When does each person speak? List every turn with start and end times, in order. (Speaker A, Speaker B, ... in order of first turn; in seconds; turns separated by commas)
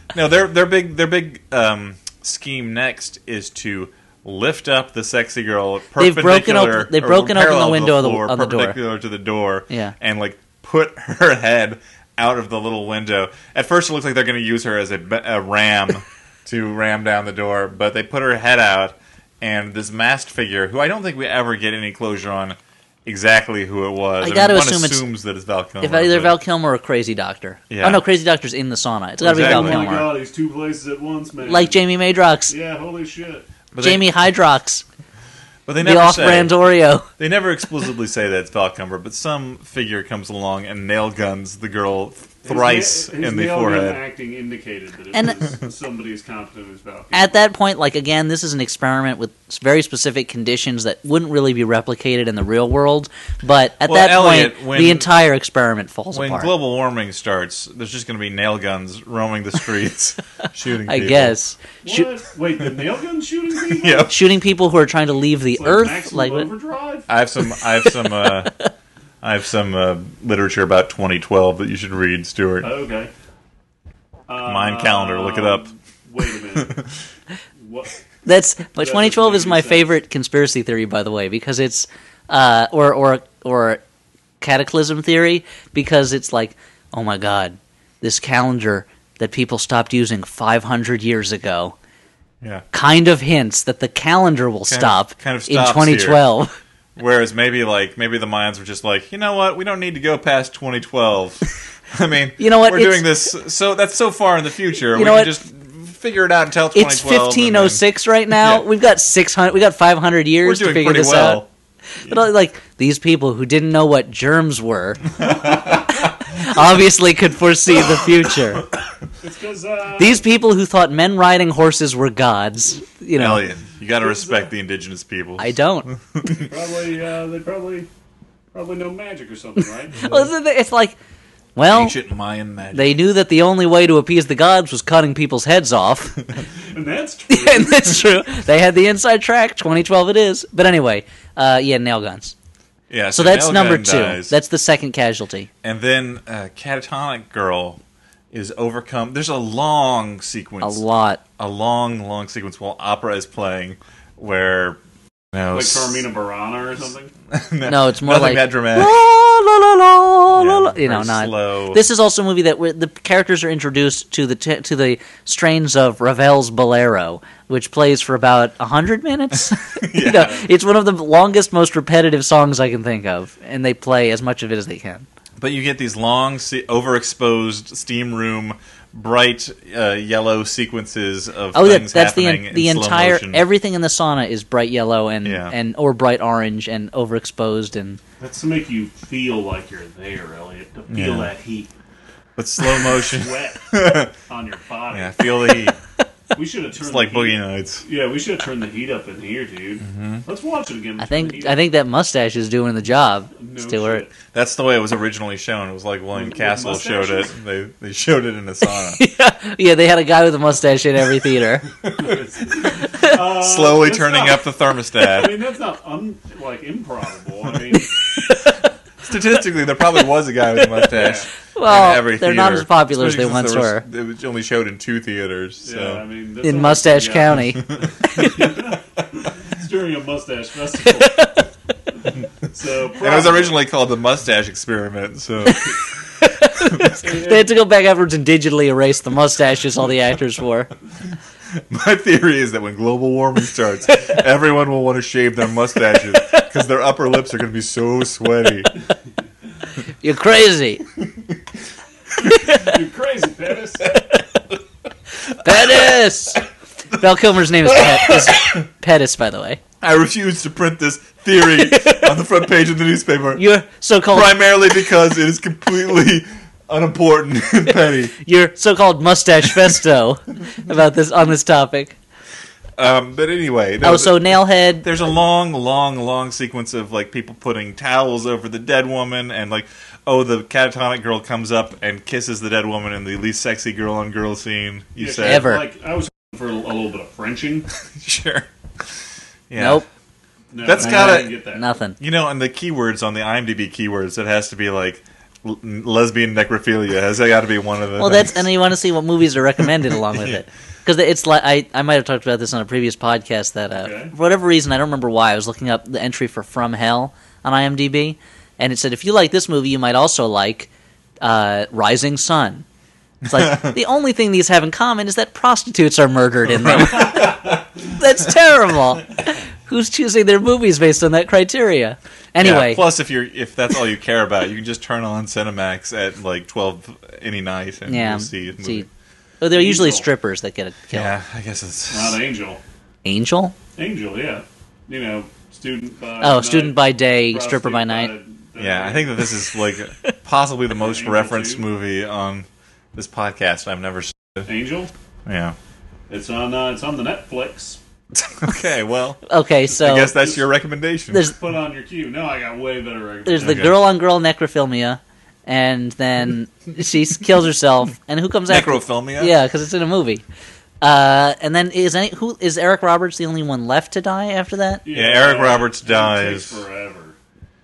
Speaker A: 0.1-26.4, Speaker B: 6.0-8.8, Speaker B: 9.7-9.9, Speaker B: 24.2-25.0, Speaker B: 25.8-30.1, Speaker A: 27.7-28.0, Speaker A: 29.2-29.9, Speaker C: 29.2-31.8, Speaker B: 31.4-32.5, Speaker C: 32.5-33.5, Speaker A: 33.7-34.1, Speaker B: 33.8-34.9, Speaker A: 35.7-36.6, Speaker B: 35.8-37.1, Speaker A: 37.2-44.0, Speaker C: 42.5-47.3, Speaker B: 45.1-45.4, Speaker B: 47.1-56.5, Speaker A: 53.9-55.1, Speaker A: 56.1-61.4, Speaker B: 60.9-62.1, Speaker C: 61.8-64.2, Speaker A: 63.6-64.2, Speaker B: 64.1-66.5, Speaker C: 65.5-67.1, Speaker A: 67.1-68.5, Speaker B: 67.8-68.7, Speaker A: 69.2-72.7, Speaker C: 72.6-73.1, Speaker C: 74.3-76.9, Speaker A: 74.5-75.7, Speaker C: 77.6-78.0, Speaker B: 78.3-83.8, Speaker C: 78.8-79.9, Speaker B: 84.4-91.8, Speaker B: 92.7-96.5, Speaker A: 94.7-96.2, Speaker A: 97.0-107.8, Speaker B: 102.4-103.1, Speaker B: 104.9-105.4, Speaker B: 106.7-111.4, Speaker A: 108.4-108.7, Speaker A: 110.4-111.5, Speaker B: 112.0-118.7, Speaker C: 119.2-120.2, Speaker B: 120.0-123.4, Speaker A: 123.2-126.5, Speaker C: 124.0-124.4, Speaker B: 125.4-125.9, Speaker C: 126.3-127.9, Speaker C: 128.5-130.3, Speaker B: 129.9-131.0, Speaker B: 131.6-132.0, Speaker A: 131.7-133.0, Speaker B: 132.7-136.3, Speaker C: 136.7-138.1, Speaker B: 137.3-142.3, Speaker A: 142.9-144.4, Speaker B: 143.1-145.5, Speaker A: 145.6-147.8, Speaker A: 148.3-150.8, Speaker B: 150.6-151.2, Speaker A: 151.4-154.8, Speaker A: 155.3-156.1, Speaker C: 155.5-157.1, Speaker A: 157.3-159.0, Speaker B: 157.7-175.1, Speaker A: 160.3-161.8, Speaker A: 169.8-170.4, Speaker C: 170.1-170.5, Speaker A: 175.4-183.4, Speaker B: 181.5-188.0, Speaker A: 185.2-185.6, Speaker C: 188.2-191.7, Speaker A: 190.9-191.3, Speaker A: 192.4-194.1, Speaker C: 192.8-195.6, Speaker A: 194.9-195.8, Speaker C: 196.3-201.7, Speaker A: 196.8-197.8, Speaker A: 199.8-200.2, Speaker B: 201.0-204.1, Speaker C: 203.4-204.1, Speaker A: 204.3-209.0, Speaker C: 206.1-207.3, Speaker B: 208.9-211.7, Speaker A: 211.8-215.4, Speaker C: 211.8-218.0, Speaker B: 218.1-218.7, Speaker A: 219.0-226.0, Speaker B: 220.6-220.9, Speaker C: 220.9-221.3, Speaker B: 221.6-223.8, Speaker C: 225.6-231.4, Speaker B: 226.4-228.3, Speaker A: 227.8-228.3, Speaker B: 230.8-231.5, Speaker C: 232.4-233.6, Speaker A: 233.0-235.8, Speaker B: 236.2-240.7, Speaker A: 236.7-236.9, Speaker C: 237.0-237.5, Speaker A: 241.5-248.7, Speaker B: 250.0-250.8, Speaker B: 252.2-252.7, Speaker C: 252.4-253.9, Speaker B: 255.4-259.6, Speaker A: 255.5-255.9, Speaker A: 257.8-258.6, Speaker A: 259.8-263.4, Speaker B: 261.5-262.2, Speaker B: 263.4-264.4, Speaker A: 264.1-268.1, Speaker B: 268.2-272.0, Speaker A: 272.8-285.5, Speaker B: 273.8-274.9, Speaker C: 285.0-287.7, Speaker B: 285.2-285.7, Speaker A: 287.9-288.5, Speaker A: 289.5-289.8, Speaker B: 289.6-289.9, Speaker C: 290.5-291.6, Speaker A: 290.6-291.4, Speaker B: 290.8-292.0, Speaker A: 292.0-298.5, Speaker B: 298.0-310.7, Speaker A: 300.1-300.4, Speaker C: 303.7-304.1, Speaker B: 311.2-312.6, Speaker B: 313.2-322.8, Speaker A: 313.3-313.8, Speaker A: 316.5-317.4, Speaker A: 322.4-328.9, Speaker B: 327.9-328.9, Speaker B: 329.4-331.1, Speaker C: 329.5-330.1, Speaker A: 330.9-332.2, Speaker C: 331.9-332.6, Speaker B: 333.1-333.6, Speaker C: 333.8-339.3, Speaker B: 336.2-338.1, Speaker A: 338.6-344.5, Speaker C: 340.8-341.6, Speaker C: 344.5-344.9, Speaker A: 345.3-345.6, Speaker C: 346.1-347.8, Speaker A: 348.1-351.3, Speaker B: 349.3-350.1, Speaker C: 351.3-353.7, Speaker B: 353.3-360.2, Speaker A: 353.4-353.8, Speaker A: 358.5-359.4, Speaker B: 360.8-364.8, Speaker C: 364.9-367.2, Speaker A: 364.9-366.6